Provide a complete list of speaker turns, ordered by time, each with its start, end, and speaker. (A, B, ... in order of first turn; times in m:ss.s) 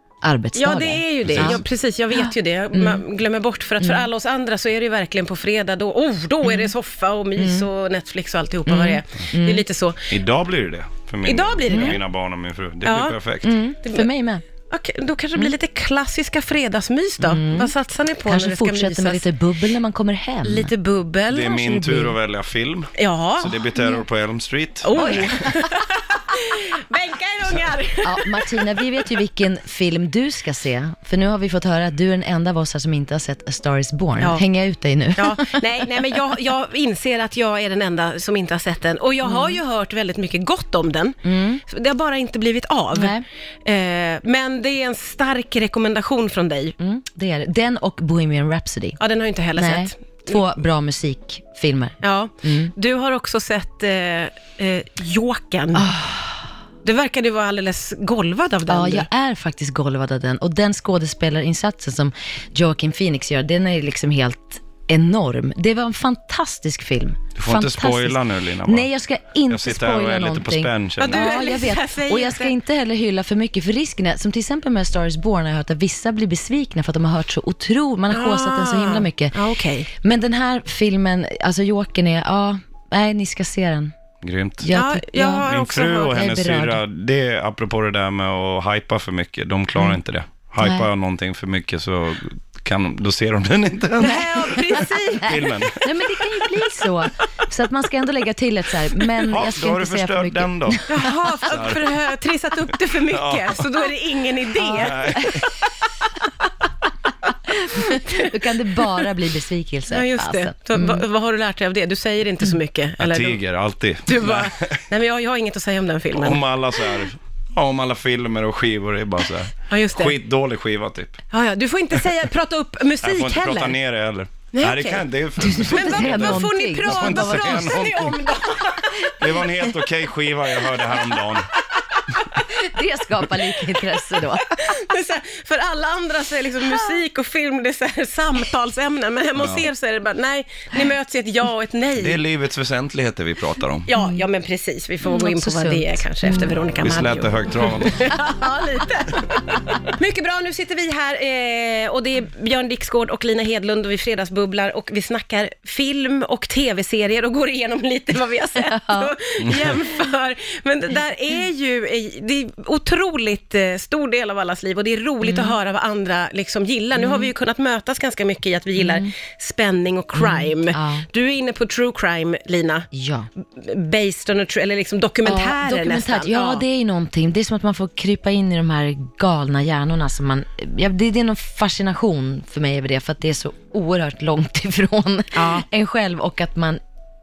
0:00.2-0:01.6 A
0:00.6-0:10.1 B
0:01.2-0:01.6 C
0:02.1-0:03.0 A
0:03.8-0:04.1 A
0:06.4-0:06.7 A
0:07.4-0:07.7 A
0:08.7-0:09.6 A
0:10.1-0:13.6 C
0:11.2-0:12.0 B
0:11.7-0:12.0 A
0:12.8-0:13.2 B
0:13.4-0:14.4 A
0:13.8-0:14.1 B
0:14.7-0:19.3 B
0:17.2-0:17.7 A
0:18.2-0:20.7 A
0:20.4-0:21.6 B
0:21.3-0:25.4 C
0:21.5-0:22.2 A
0:23.0-0:23.6 B
0:23.8-0:24.0 A
0:24.8-0:28.5 B
0:25.0-0:25.5 A
0:28.0-0:35.8 A
0:35.2-0:46.8 B
0:39.2-0:39.6 A
0:41.2-0:41.6 A
0:43.0-0:43.3 A
0:46.8-0:49.0 A
0:49.0-0:50.4 B
0:49.6-0:52.7 A
0:52.0-0:55.9 B
0:55.7-0:56.5 A
0:56.8-0:59.1 B
0:58.7-1:19.4 A
1:07.4-1:08.9 C
1:09.5-1:11.3 C
1:11.0-1:12.5 B
1:18.1-1:19.9 B
1:20.0-1:24.0 A
1:24.2-1:24.7 C
1:24.6-1:25.5 A
1:24.7-1:26.2 B
1:25.4-1:35.9 C
1:26.1-1:26.8 A
1:30.6-1:30.9 A
1:34.0-1:35.5 B
1:35.3-1:41.3 A
1:39.2-1:42.0 C
1:40.9-1:45.5 B
1:43.1-1:43.7 C
1:44.7-1:45.5 C
1:47.5-1:51.0 A
1:47.8-1:48.3 B
1:49.9-1:53.4 B
1:53.0-1:54.8 C
1:54.1-1:56.4 B
1:56.1-2:01.2 C
1:59.7-2:00.2 B
2:01.3-2:03.8 B
2:03.0-2:08.3 C
2:04.5-2:05.0 B
2:05.4-2:08.0 A
2:05.6-2:09.4 B
2:09.2-2:11.5 C
2:10.8-2:12.4 B
2:12.5-2:14.8 A
2:14.2-2:22.2 B
2:19.4-2:19.7 C
2:22.0-2:23.9 C
2:23.9-2:52.9 B
2:24.0-2:24.2 A
2:25.0-2:26.6 A
2:26.8-2:28.1 C
2:38.7-2:39.1 A
2:45.2-2:45.6 A
2:47.0-2:47.3 A
2:48.8-2:49.1 A
2:50.2-2:51.1 A
2:52.9-2:53.3 A
2:53.4-2:56.6 B
2:55.2-3:06.8 A
3:05.3-3:05.7 B